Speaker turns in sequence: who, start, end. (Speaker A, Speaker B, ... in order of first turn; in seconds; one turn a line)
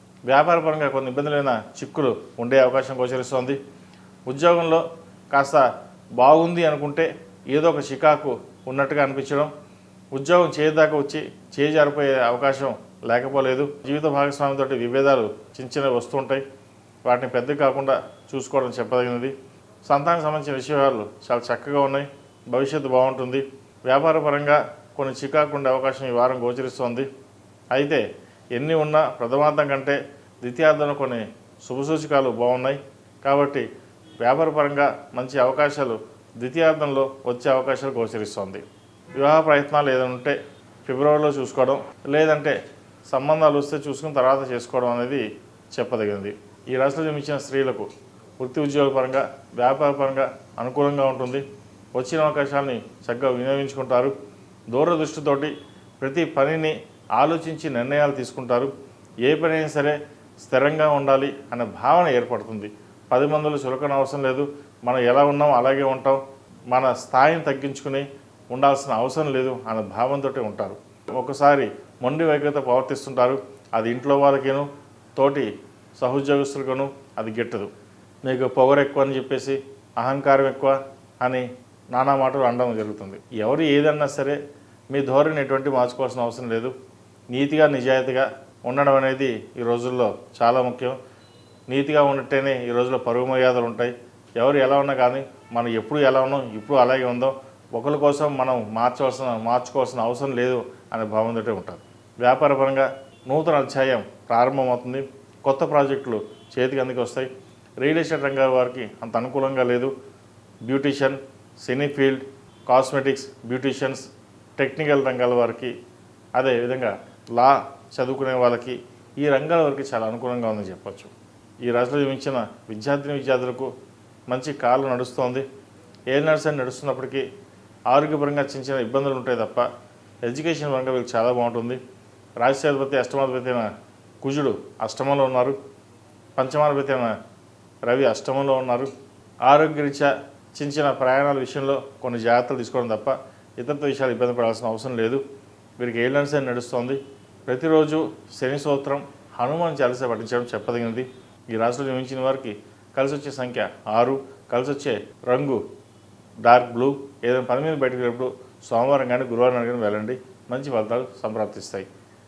Speaker A: 0.3-3.6
Speaker A: 4.3-9.5
Speaker A: 10.1-16.4
Speaker A: 17.0-27.1
Speaker A: 27.7-28.0
Speaker A: 28.5-33.7
Speaker A: 34.2-38.6
Speaker A: 39.1-42.6
Speaker A: 43.1-47.9
Speaker A: 48.4-51.4
Speaker A: 52.0-54.1
Speaker A: 54.7-58.7
Speaker A: 59.2-77.7
Speaker A: 78.2-84.4
Speaker A: 84.9-86.7
Speaker A: 87.3-91.0
Speaker A: 91.7-107.3
Speaker A: 107.8-109.9
Speaker A: 110.6-115.7
Speaker A: 116.3-121.1
Speaker A: 121.6-123.7
Speaker A: 124.3-125.4
Speaker A: 126.1-127.2
Speaker A: 127.9-129.7
Speaker A: 130.2-131.8
Speaker A: 132.4-133.7
Speaker A: 134.2-135.6
Speaker A: 136.4-137.1
Speaker A: 137.8-138.9
Speaker A: 139.4-145.2
Speaker A: 145.8-155.6
Speaker A: 156.4-161.9